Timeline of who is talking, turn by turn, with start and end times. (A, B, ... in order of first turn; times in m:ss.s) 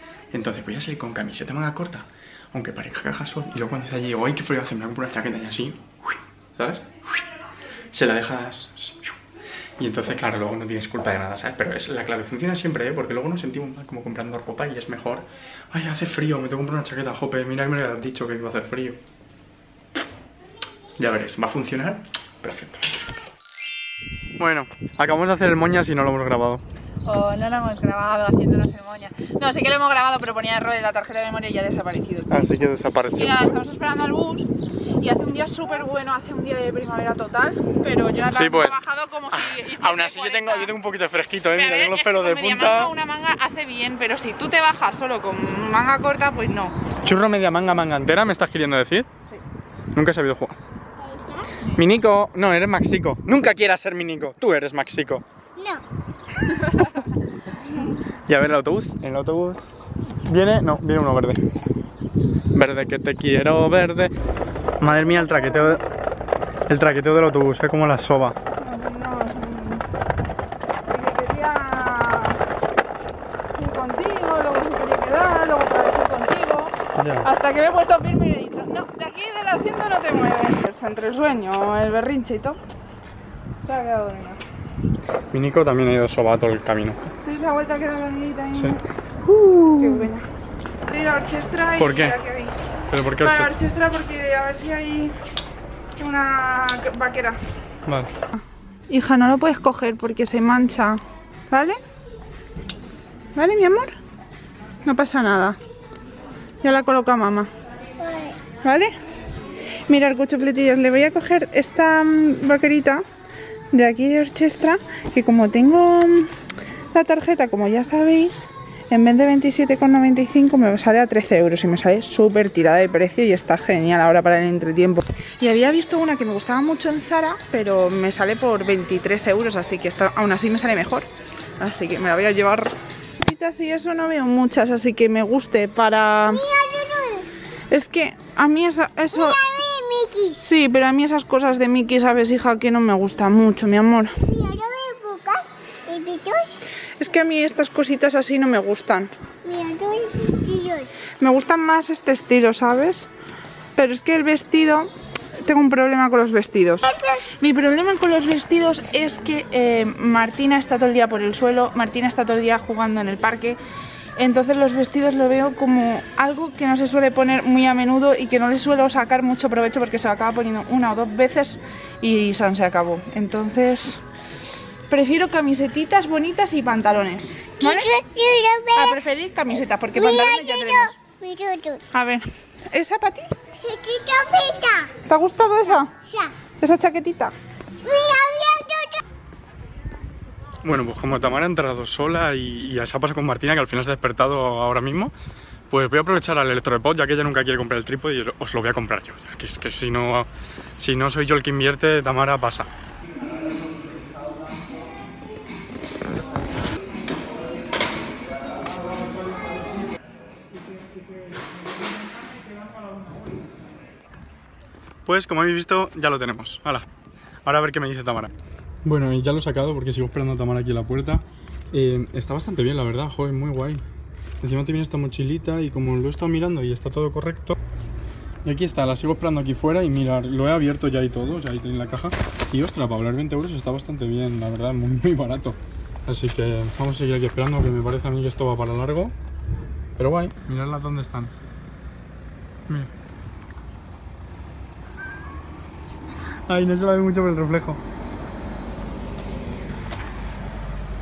0:00.3-0:06.9 A
0:07.9-0:09.1 A
0:09.8-0:19.0 A
0:21.0-0:22.9 A
0:24.4-0:26.6 A
0:27.0-0:32.4 B
0:32.3-0:33.5 A
0:33.1-0:34.5 B
0:35.0-0:40.7 B
0:38.3-0:38.8 A
0:39.3-0:42.9 A
0:41.5-0:46.8 B
0:47.0-0:49.1 A
0:49.9-0:50.6 A
0:51.7-0:55.2 A
0:55.6-0:55.8 C
0:58.3-1:01.5 A
1:02.5-1:04.1 A
1:04.8-1:05.8 A
1:06.7-1:08.4 A
1:08.6-1:09.8 B
1:10.9-1:12.4 B
1:13.6-1:22.6 B
1:17.0-1:17.3 A
1:23.6-1:24.4 B
1:25.3-1:27.1 A
1:27.2-1:28.8 B
1:28.5-1:30.1 A
1:29.7-1:30.3 B
1:30.9-1:32.6 B
1:31.8-1:32.2 A
1:32.9-1:33.5 A
1:33.2-1:35.2 B
1:36.0-1:37.4 B
1:37.9-1:38.1 A
1:38.3-1:41.8 B
1:43.4-1:44.0 B
1:44.8-1:45.6 B
1:46.6-1:47.5 B
1:48.0-1:48.4 C
1:48.6-1:48.9 B
1:49.9-1:53.0 B
1:53.7-1:56.3 B
1:56.9-2:11.1 B
2:11.6-2:16.4 B
2:16.3-2:17.3 C
2:17.7-2:19.4 B
2:19.1-2:20.4 C
2:20.4-2:24.3 B
2:24.2-2:26.6 C
2:27.0-2:29.1 B
2:29.4-2:30.9 C
2:31.2-2:33.1 B
2:33.8-2:43.6 B
2:36.9-2:37.3 C
2:44.2-2:54.0 B
2:54.9-2:57.9 B
2:57.6-2:59.0 C
2:58.8-3:00.9 B
2:59.9-3:01.8 C
3:01.9-3:03.3 B
3:03.6-3:05.0 C
3:05.0-3:06.0 B
3:06.6-3:07.3 B
3:07.8-3:09.0 C
3:10.6-3:15.1 A
3:15.7-3:22.7 A
3:35.1-3:36.9 A
3:37.4-3:38.3 A
3:38.8-3:43.8 A
3:44.4-3:47.6 A
3:48.4-3:59.1 A
4:00.0-4:01.3 A
4:06.5-4:07.8 A